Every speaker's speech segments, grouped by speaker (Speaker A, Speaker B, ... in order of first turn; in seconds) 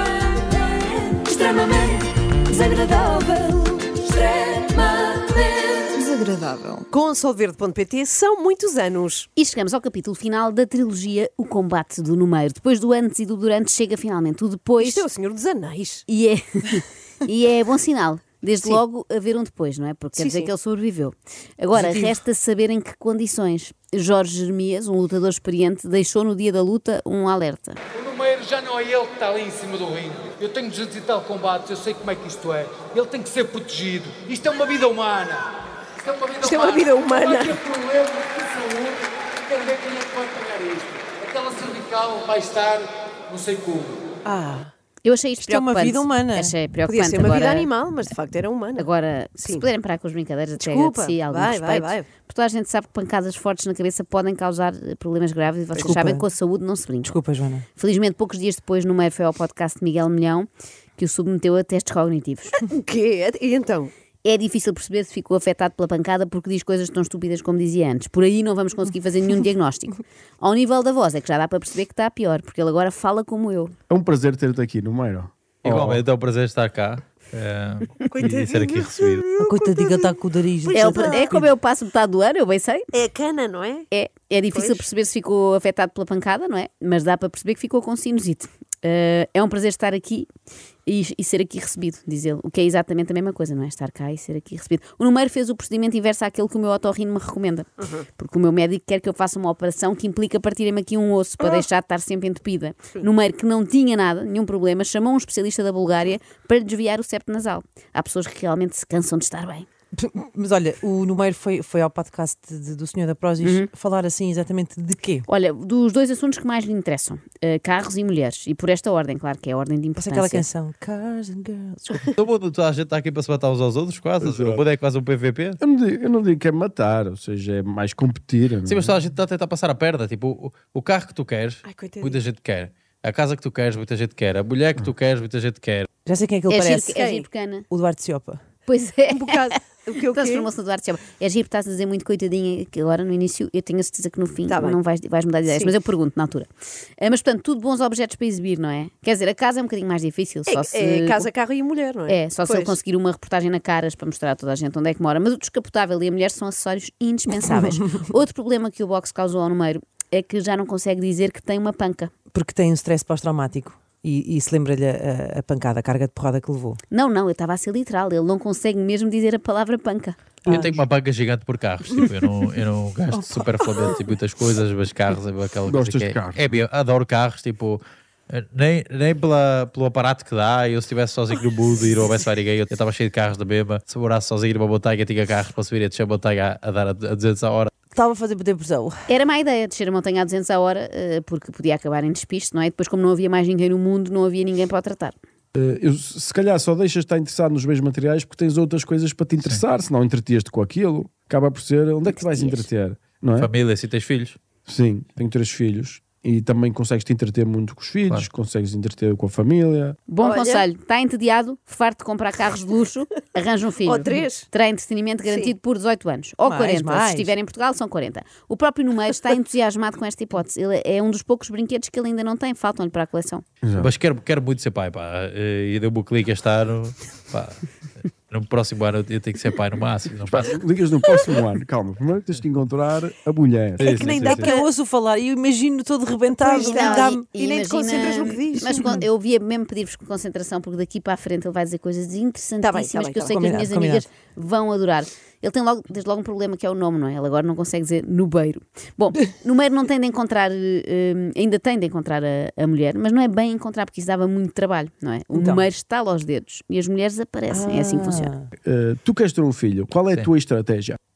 Speaker A: 0.3-6.0, 21.8-22.1, 45.4-46.5, 55.8-56.2, 57.0-57.6, 79.4-81.5, 109.9-115.2, 120.0-122.1, 136.1-138.4, 162.3-166.8, 187.9-189.0, 216.4-217.3, 234.1-237.3, 238.6-239.0, 243.3-244.1, 255.3-255.7, 257.5-258.5
Speaker B: 6.0-9.3, 14.8-16.1, 20.2-20.5, 36.4-37.6, 44.3-44.7, 46.9-48.9, 50.6-52.1, 62.6-63.9, 78.0-81.3, 82.9-83.9, 84.5-84.9, 131.7-132.2, 139.1-140.5, 144.5-144.8, 145.5-145.7, 150.5-152.8, 210.2-210.7, 213.8-214.5, 215.3-215.5, 233.8-234.7, 236.4-238.8, 242.6-243.6
Speaker C: 9.4-15.0, 16.1-27.8, 45.0-47.7, 48.8-57.2, 57.8-62.6, 64.2-73.7, 80.7-82.8, 83.9-90.3, 90.9-109.7, 113.4-113.7, 115.3-120.5, 136.5-137.7, 138.7-146.5, 147.0-151.3, 152.1-162.1, 166.9-170.3, 189.1-195.2, 202.1-202.7, 210.1-223.4, 236.5-258.3
Speaker D: 28.0-35.5, 36.0-44.0
Speaker E: 73.9-76.0, 124.2-124.6, 125.6-129.0, 170.4-170.8, 175.7-176.5, 195.5-203.5, 204.7-210.0, 223.6-223.9, 230.3-234.5, 258.6-261.0
Speaker F: 75.6-79.3, 122.2-125.6, 128.7-135.9, 170.5-187.8, 203.4-204.4, 223.8-230.6, 233.8-234.4